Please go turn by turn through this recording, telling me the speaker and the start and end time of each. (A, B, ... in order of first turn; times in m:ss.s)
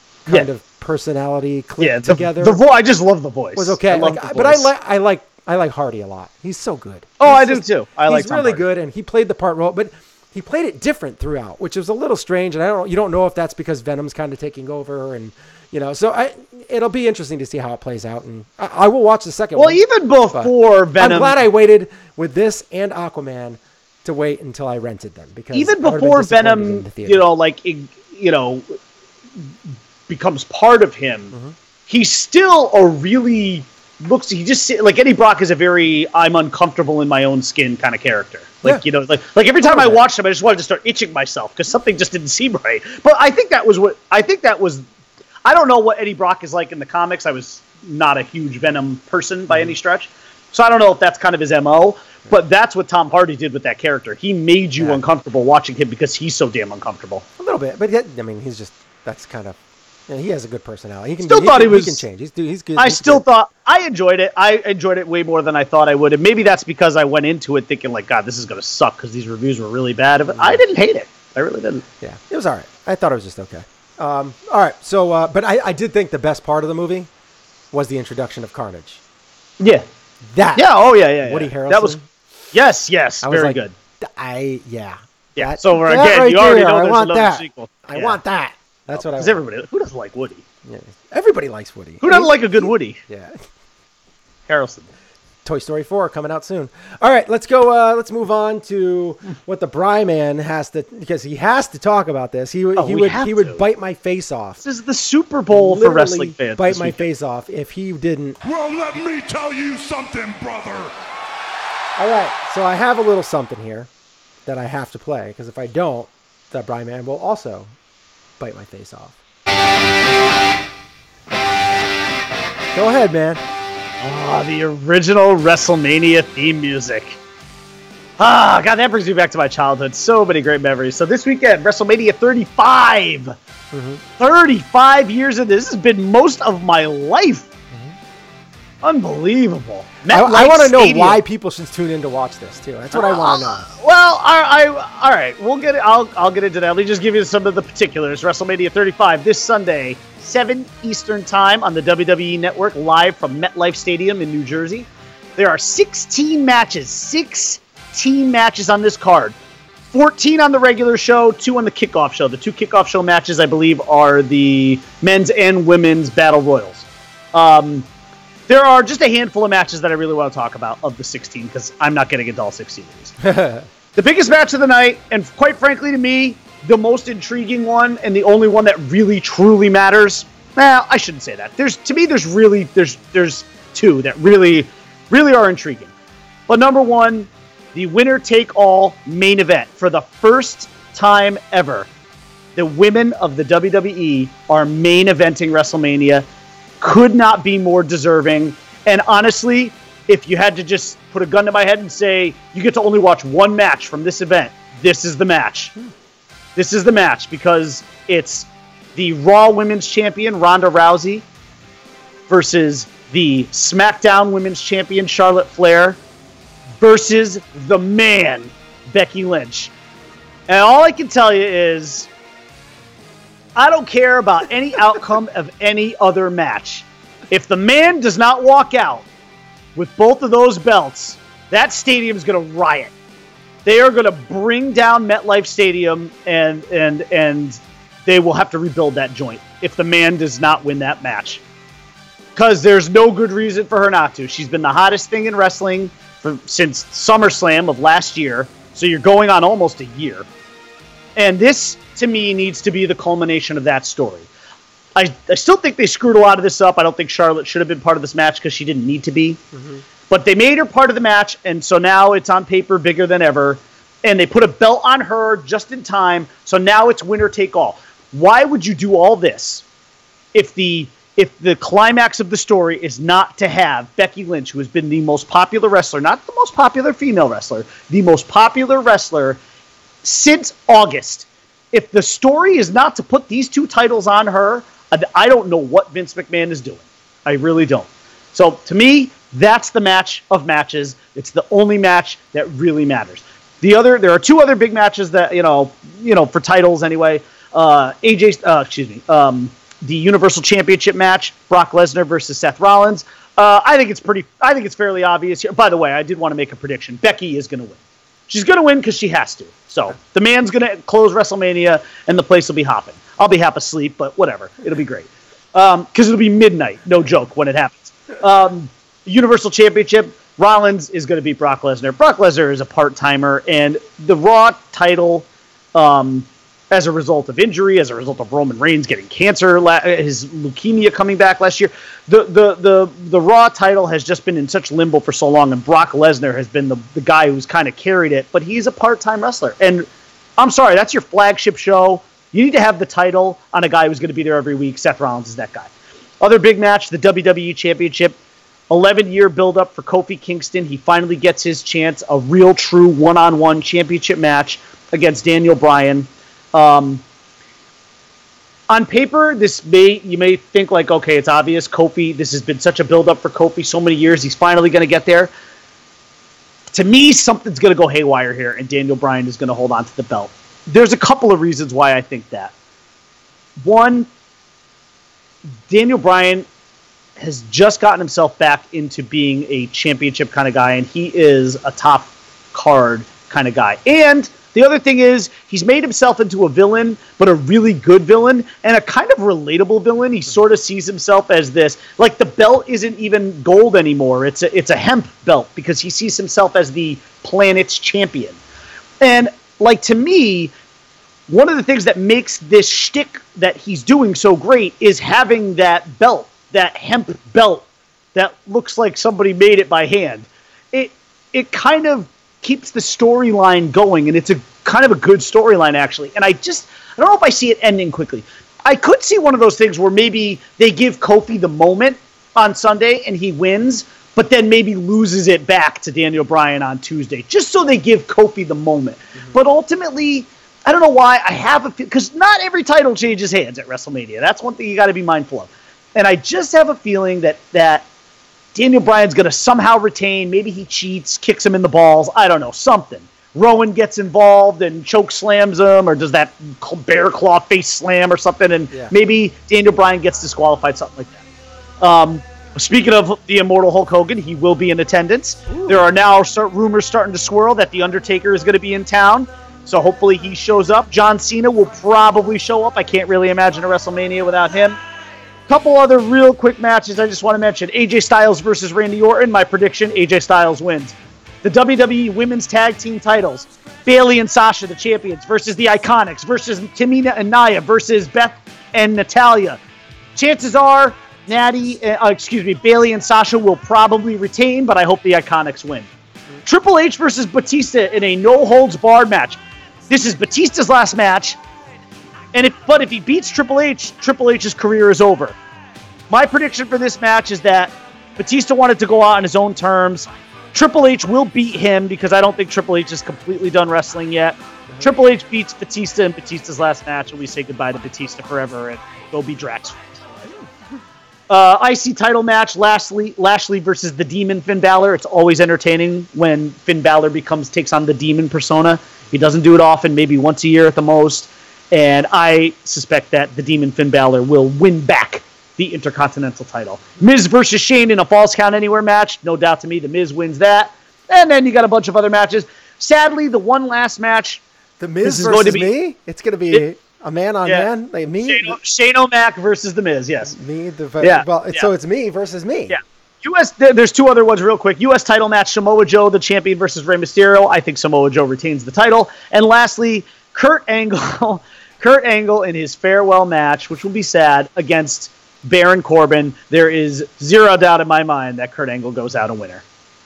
0:00.2-0:02.6 A
0:01.8-0:04.7 B
0:03.6-0:19.8 A
0:07.2-0:08.7 B
0:19.6-0:21.4 B
0:20.3-0:27.2 A
0:25.5-0:28.8 B
0:30.1-0:31.4 B
0:31.9-0:44.8 B
0:39.6-0:40.0 A
0:45.4-0:57.2 B
0:49.5-0:49.8 A
0:57.4-1:03.2 A
1:01.2-1:02.0 B
1:02.8-1:11.8 B
1:10.3-1:10.6 A
1:12.0-1:17.1 A
1:17.7-1:19.0 A
1:19.6-1:19.8 B
1:20.3-1:20.7 A
1:20.6-1:22.0 B
1:21.2-1:22.1 A
1:22.5-1:23.7 B
1:23.2-1:29.4 A
1:25.4-1:28.2 B
1:28.9-1:30.4 B
1:30.6-1:33.4 A
1:32.0-1:33.0 B
1:34.5-1:34.9 B
1:35.4-1:44.6 A
1:42.8-1:43.6 B
1:44.6-1:47.0 B
1:45.5-1:48.4 A
1:48.4-1:50.9 C
1:52.0-1:53.9 A
1:54.5-1:57.7 A
1:58.4-1:59.2 A
2:02.7-2:03.4 A
2:04.0-2:07.2 B
2:08.2-2:13.4 B
2:13.7-2:14.0 A
2:14.2-2:17.5 B
2:18.8-2:21.2 B
2:20.1-2:23.7 A
2:22.9-2:39.4 B
2:39.9-2:47.9 B
2:48.5-2:53.2 B
2:53.2-2:53.7 A
2:54.0-3:05.9 B
3:06.5-3:11.9 B
3:12.6-3:16.3 B
3:16.8-3:25.7 B
3:26.6-3:31.3 B
3:32.3-3:36.0 B
3:36.8-3:39.7 B
3:40.5-3:42.1 B
3:43.6-3:49.1 B
3:49.8-3:52.9 B
3:53.6-4:01.4 B
4:02.4-4:10.3 B
4:11.2-4:14.3 B
4:15.0-4:19.4 B
4:19.5-4:19.8 A
4:20.1-4:29.6 B
4:30.3-4:39.4 B
4:40.0-5:07.8 B
5:08.3-5:48.2 B
5:48.7-5:57.0 B
5:58.7-6:05.3 B
6:06.7-6:12.5 B
6:13.6-6:14.1 B
6:15.7-6:16.5 B
6:17.2-6:38.4 B
6:39.0-6:40.5 B
6:41.3-7:17.8 B
7:18.6-7:31.2 B
7:31.8-7:44.8 B
7:35.5-7:35.8 A
7:45.5-7:59.6 B
8:00.2-8:05.9 B
8:06.4-8:11.4 B
8:12.3-8:15.4 B
8:16.1-8:29.8 B
8:31.3-8:54.4 B
8:54.8-8:58.6 A
8:55.0-8:55.7 B
8:58.2-9:00.4 B
9:00.3-9:02.8 A
9:01.0-9:01.7 B
9:02.7-9:19.6 B